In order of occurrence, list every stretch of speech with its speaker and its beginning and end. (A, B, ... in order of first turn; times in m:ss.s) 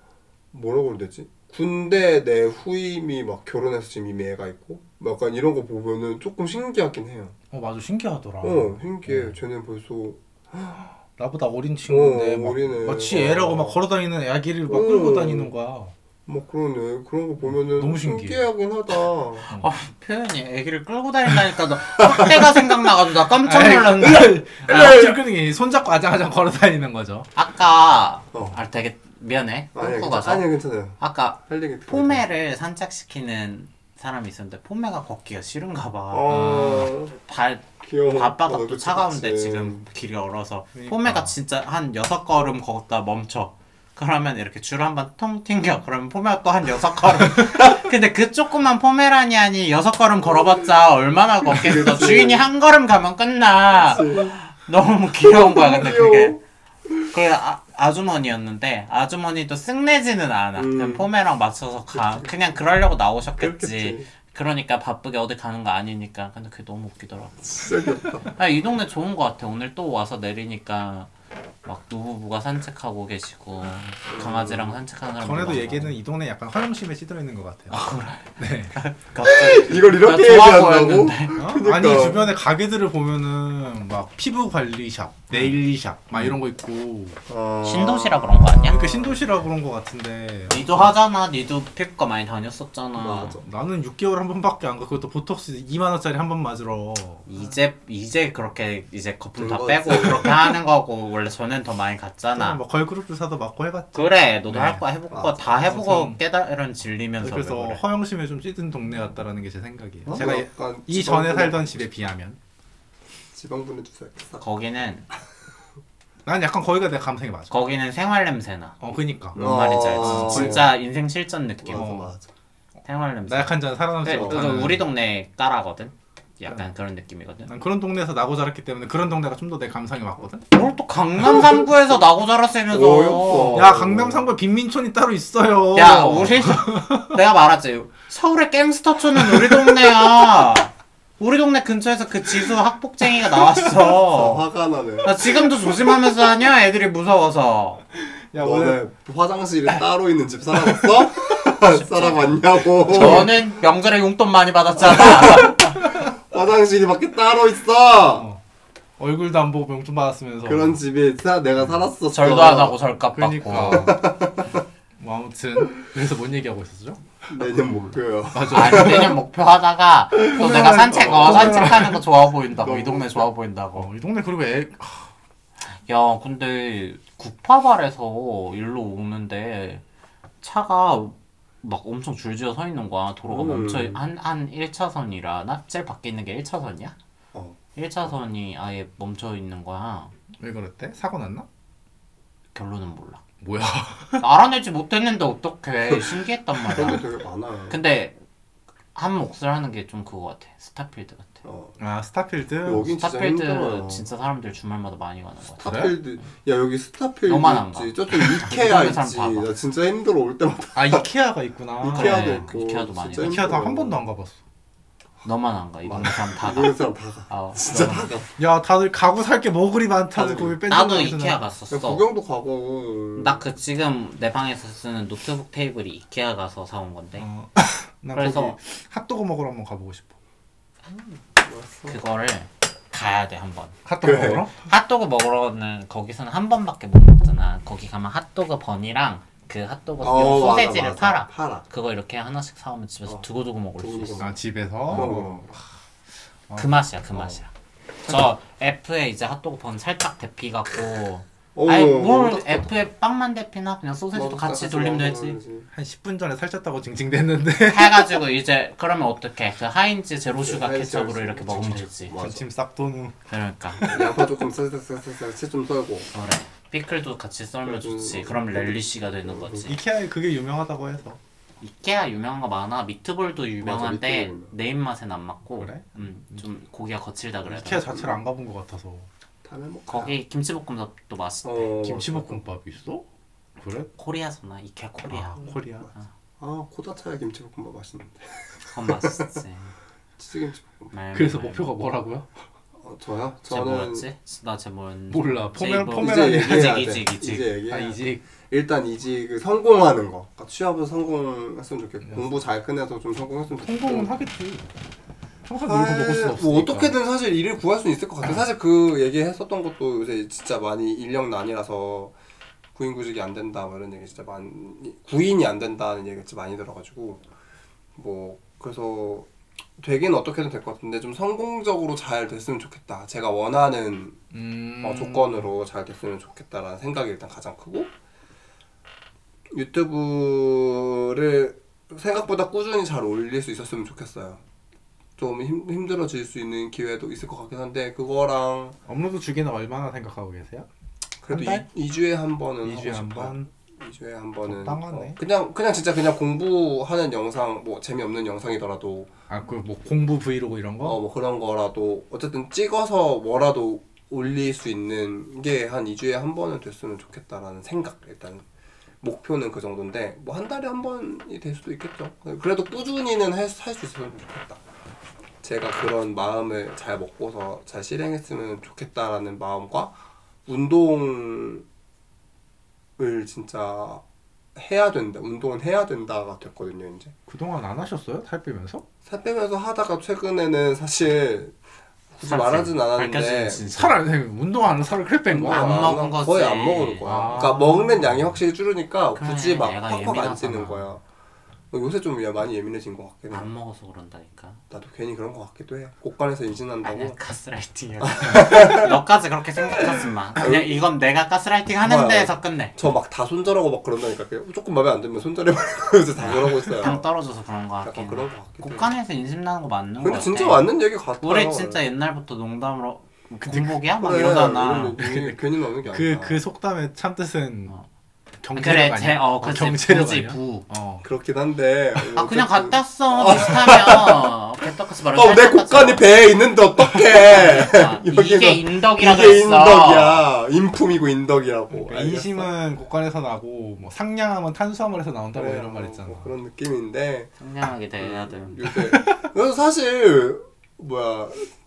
0:00.5-0:07.4 A
0:07.5-0:09.4 B
0:08.4-0:10.8 A
0:11.2-0:15.9 B
0:11.9-0:13.8 A
0:14.7-0:15.5 A
0:16.2-0:19.5 A
0:17.4-0:18.4 B
0:19.5-0:24.7 C
0:23.4-0:27.3 B
0:24.6-0:25.2 A
0:27.3-0:30.5 C
0:28.3-0:28.6 A
0:29.7-0:32.2 A
0:31.0-0:56.4 C
0:36.1-0:37.1 A
0:36.3-0:36.9 B
0:37.8-0:39.8 A
0:40.7-0:41.3 B
0:51.5-0:52.5 A
0:53.8-0:54.4 A
0:55.2-0:57.1 A
0:57.0-1:07.6 C
1:00.6-1:01.1 A
1:01.9-1:02.6 A
1:03.4-1:04.1 A
1:07.4-1:08.3 A
1:08.2-1:11.1 C
1:11.6-1:15.9 C
1:14.1-1:14.8 A
1:15.2-1:17.8 B
1:17.7-1:21.4 C
1:18.4-1:18.8 B
1:19.2-1:22.3 A
1:21.4-1:27.2 B
1:25.3-1:25.6 C
1:27.3-1:29.2 A
1:27.6-1:28.8 C
1:28.6-1:30.7 B
1:30.5-1:33.4 C
1:33.0-1:33.4 A
1:33.4-1:37.2 B
1:37.2-1:42.6 C
1:39.4-1:40.5 A
1:42.3-1:44.8 B
1:43.9-1:47.8 C
1:45.1-1:45.5 A
1:45.6-1:46.2 B
1:47.2-1:52.4 B
1:50.0-1:51.8 A
1:53.3-1:54.4 A
1:54.4-1:55.1 C
1:56.2-1:57.5 B
1:57.5-1:58.8 C
1:58.8-1:59.4 B
1:59.3-2:02.0 C
1:59.3-2:00.7 A
2:00.0-2:00.7 B
2:01.6-2:02.2 A
2:01.7-2:02.2 B
2:02.8-2:07.5 C
2:03.2-2:04.9 B
2:04.0-2:04.5 A
2:07.5-2:10.5 B
2:10.5-2:13.7 C
2:12.7-2:14.3 A
2:13.5-2:17.2 B
2:15.7-2:24.4 C
2:19.3-2:19.7 B
2:24.0-2:25.3 A
2:25.0-2:27.8 C
2:28.3-2:28.8 B
2:28.3-2:33.4 A
2:32.8-2:35.8 C
2:33.0-2:33.2 B
2:34.8-2:38.3 A
2:38.1-2:38.4 B
2:39.0-2:40.8 B
2:40.4-2:42.8 A
2:42.1-2:44.0 C
2:43.1-2:44.1 B
2:43.6-2:44.6 A
2:45.0-2:47.0 B
2:47.3-2:49.2 A
2:48.3-2:49.2 B
2:48.5-2:53.9 C
2:50.2-2:51.9 A
2:50.2-2:52.0 B
2:52.6-2:53.2 A
2:53.7-2:55.1 B
2:55.7-2:59.8 C
3:00.4-3:07.0 C
3:03.3-3:04.0 A
3:07.7-3:10.1 C
3:10.4-3:11.4 B
3:12.5-3:13.2 C
3:13.4-3:14.2 B
3:14.2-3:17.0 C
3:16.6-3:17.8 A
3:17.7-3:18.2 C
3:18.9-3:21.4 C
3:21.4-3:21.8 A
3:21.8-3:22.9 B
3:22.6-3:24.0 A
3:22.9-3:25.8 C
3:25.6-3:31.0 A
3:25.6-3:25.9 B
3:27.3-3:29.5 C
3:30.7-3:32.5 B
3:31.8-3:34.0 A
3:31.8-3:33.5 C
3:33.1-3:34.4 B
3:35.2-3:36.8 C
3:35.8-3:38.3 A
3:37.3-3:38.1 C
3:38.4-3:41.5 B
3:40.1-3:40.6 A
3:40.7-3:42.0 C
3:41.7-3:43.4 A
3:43.2-3:47.3 C
3:47.2-3:50.2 B
3:48.1-3:48.6 C
3:50.9-3:51.2 C
3:51.4-3:52.0 A
3:51.9-3:53.8 C
3:53.8-3:54.6 B
3:54.0-3:54.5 A
3:54.6-4:04.3 C
4:00.0-4:01.6 A
4:03.8-4:05.5 A
4:04.2-4:05.6 B
4:04.9-4:05.2 C
4:06.5-4:06.8 B
4:06.6-4:07.5 C
4:08.0-4:15.4 C
4:11.5-4:12.7 A
4:14.1-4:15.7 A
4:15.7-4:18.2 B
4:17.7-4:22.2 C
4:20.4-4:22.4 A
4:22.2-4:24.0 B
4:23.3-4:24.0 C
4:23.9-4:26.1 A
4:26.1-4:29.8 C
4:27.6-4:29.7 A
4:29.6-4:31.2 B
4:31.6-4:37.9 C
4:33.6-4:34.5 A
4:35.6-4:36.5 B
4:37.4-4:39.1 B
4:37.9-4:38.2 A
4:39.4-4:40.2 A
4:39.9-4:41.8 C
4:41.4-4:42.4 A
4:41.8-4:43.0 B
4:43.6-4:43.9 B
4:43.9-4:46.1 C
4:45.0-4:45.9 B
4:46.4-4:49.4 A
4:48.6-4:49.7 C
4:50.2-4:50.9 A
4:50.9-4:51.7 C
4:51.1-4:52.3 B
4:52.8-4:54.0 A
4:53.5-4:57.5 C
4:55.1-4:56.9 B
4:56.0-5:04.1 A
4:57.7-4:58.2 B
5:03.6-5:04.7 B
5:05.5-5:06.9 B
5:05.5-5:12.1 A
5:12.7-5:17.2 A
5:18.0-5:24.2 A
5:24.3-5:25.5 B
5:24.8-5:27.9 A
5:29.5-5:34.4 A
5:35.2-5:38.8 A
5:38.9-5:40.7 B
5:41.2-5:49.1 A
5:41.3-5:41.7 B
5:42.6-5:43.5 B
5:44.4-5:45.2 B
5:49.3-5:51.0 B
5:50.8-5:58.4 A
5:59.0-6:04.6 A
6:05.4-6:09.9 A
6:10.4-6:11.6 A
6:13.0-6:14.0 A
6:14.5-6:17.1 A
6:17.3-6:18.8 B
6:19.0-6:21.5 A
6:22.1-6:23.6 A
6:22.2-6:24.0 C
6:23.7-6:25.9 B
6:25.3-6:31.0 A
6:25.4-6:27.4 C
6:27.0-6:28.2 B
6:29.1-6:30.8 C
6:31.7-6:33.5 A
6:33.3-6:34.6 C
6:34.7-6:37.2 A
6:36.8-6:42.7 C
6:38.0-6:39.0 A
6:39.7-6:40.8 A
6:41.8-6:47.0 A
6:46.2-6:50.7 C
6:47.8-6:48.9 A
6:50.0-6:51.8 A
6:51.2-6:55.0 C
6:53.5-6:53.8 B
6:54.0-6:56.4 A
6:55.0-6:57.7 B
6:58.4-7:01.0 B
6:58.6-7:00.6 C
7:01.0-7:04.3 A
7:02.1-7:06.0 C
7:05.1-7:12.5 A
7:07.1-7:10.3 C
7:11.7-7:16.3 B
7:15.3-7:17.3 A
7:17.4-7:18.6 C
7:18.0-7:21.5 A
7:18.7-7:19.3 B